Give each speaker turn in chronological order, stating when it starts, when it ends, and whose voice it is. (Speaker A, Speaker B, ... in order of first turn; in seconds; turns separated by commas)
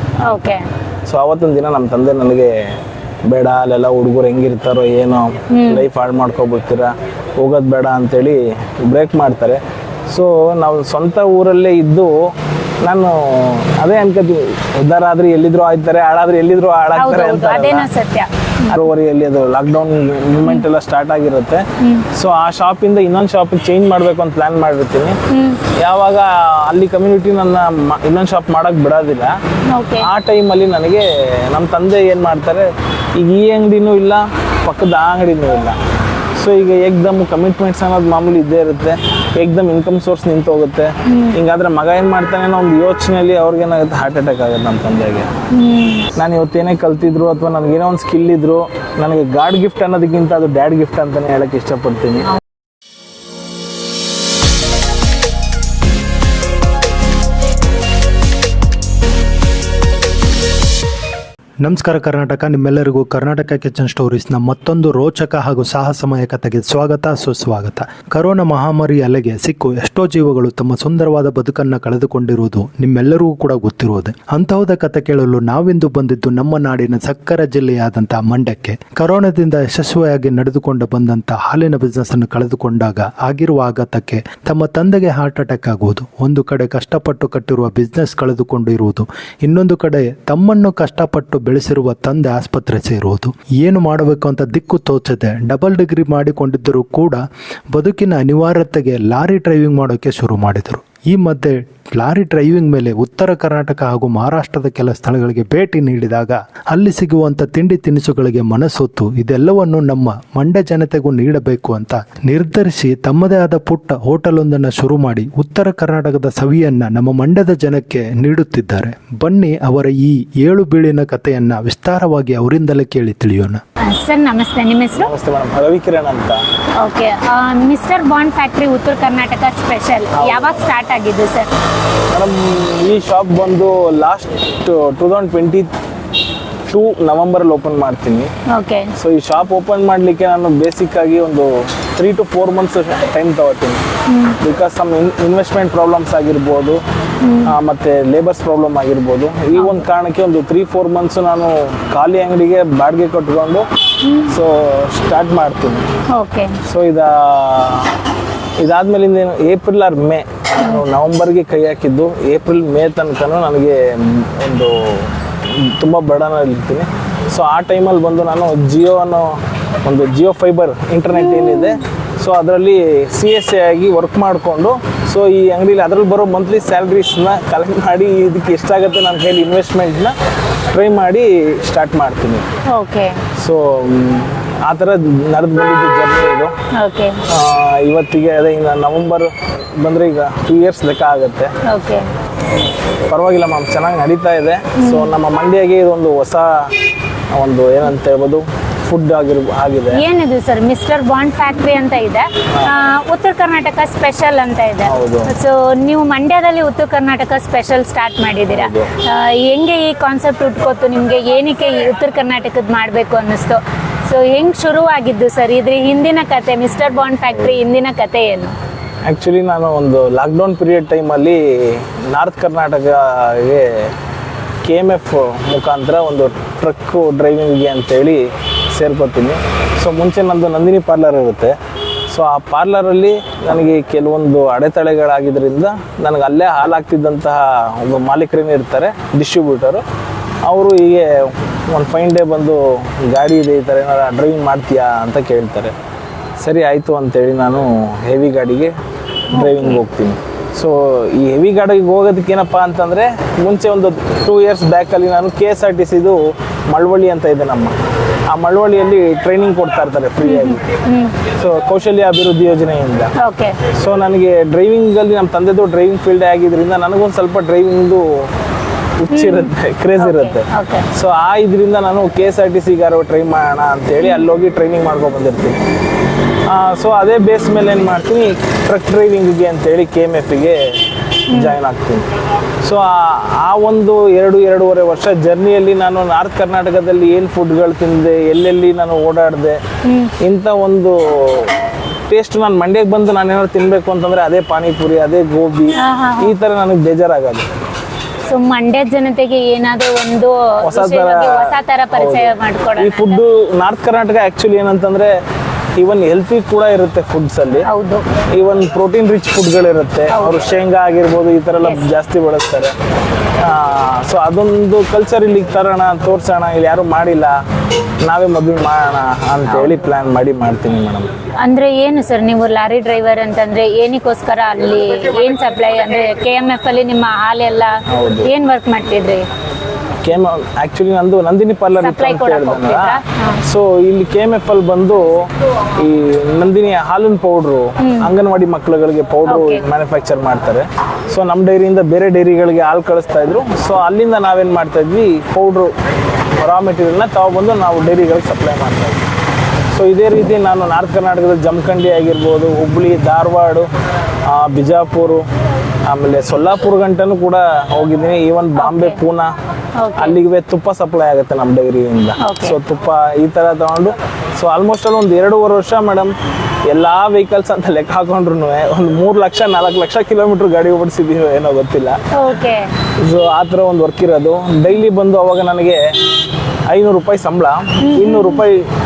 Speaker A: 0.2-0.6, Speaker B: 1.1-2.7, Speaker B: 3.3-17.9, Speaker A: 5.5-5.8, Speaker A: 16.9-18.9, Speaker B: 18.7-25.2, Speaker A: 21.8-22.1, Speaker A: 25.3-25.6, Speaker B: 25.8-29.4, Speaker A: 29.7-30.1, Speaker B: 30.0-35.8, Speaker B: 36.4-45.3, Speaker A: 41.1-41.4, Speaker A: 45.5-46.0, Speaker B: 46.1-52.3, Speaker C: 61.6-123.6, Speaker A: 123.8-125.1, Speaker B: 124.9-126.4, Speaker A: 126.8-131.5, Speaker B: 130.1-130.7, Speaker B: 132.1-135.7, Speaker B: 136.7-138.3, Speaker A: 138.5-138.9, Speaker B: 138.9-143.8, Speaker A: 144.1-144.3, Speaker B: 144.4-146.8, Speaker A: 147.2-147.5, Speaker B: 147.4-153.6, Speaker A: 149.5-149.8, Speaker A: 154.0-154.3, Speaker B: 154.3-155.9, Speaker A: 156.1-156.6, Speaker B: 156.6-157.9, Speaker B: 158.6-180.1, Speaker A: 171.2-171.8, Speaker B: 180.7-182.4, Speaker A: 182.7-183.2, Speaker B: 183.4-186.5, Speaker A: 186.7-187.2, Speaker B: 187.3-191.5, Speaker A: 191.6-192.1, Speaker B: 193.1-200.0, Speaker A: 194.8-195.1, Speaker A: 199.9-218.5, Speaker B: 204.8-205.3, Speaker B: 208.5-208.9, Speaker B: 219.1-223.9, Speaker B: 224.6-231.6, Speaker B: 232.1-239.8, Speaker B: 240.5-245.7, Speaker B: 246.4-248.7, Speaker A: 249.3-249.8, Speaker B: 249.3-257.8, Speaker B: 258.3-260.6, Speaker A: 260.2-261.1, Speaker B: 261.2-263.1, Speaker A: 263.2-263.6, Speaker B: 263.7-268.3, Speaker B: 269.0-275.6, Speaker A: 269.1-270.9, Speaker B: 276.5-280.7, Speaker B: 281.3-282.1, Speaker B: 282.6-289.6, Speaker A: 289.8-290.1, Speaker B: 290.2-291.5, Speaker B: 292.1-297.5, Speaker A: 295.8-296.3, Speaker A: 298.3-303.2, Speaker B: 300.6-305.2, Speaker B: 305.8-307.7, Speaker A: 307.7-308.0, Speaker B: 308.3-312.7, Speaker A: 310.1-310.4, Speaker B: 313.4-317.4, Speaker B: 318.1-321.1, Speaker A: 321.4-329.2, Speaker B: 327.9-328.3, Speaker B: 330.0-345.7, Speaker A: 331.8-333.4, Speaker A: 337.8-338.1, Speaker A: 339.3-339.6, Speaker B: 346.4-349.1, Speaker B: 349.7-353.7, Speaker B: 354.2-355.2, Speaker B: 355.9-359.3, Speaker A: 358.6-359.0, Speaker A: 359.8-360.2, Speaker B: 360.0-366.1, Speaker A: 362.2-362.6, Speaker B: 366.7-372.0, Speaker A: 372.1-372.7, Speaker B: 373.0-376.0, Speaker B: 376.7-378.7, Speaker A: 377.8-378.4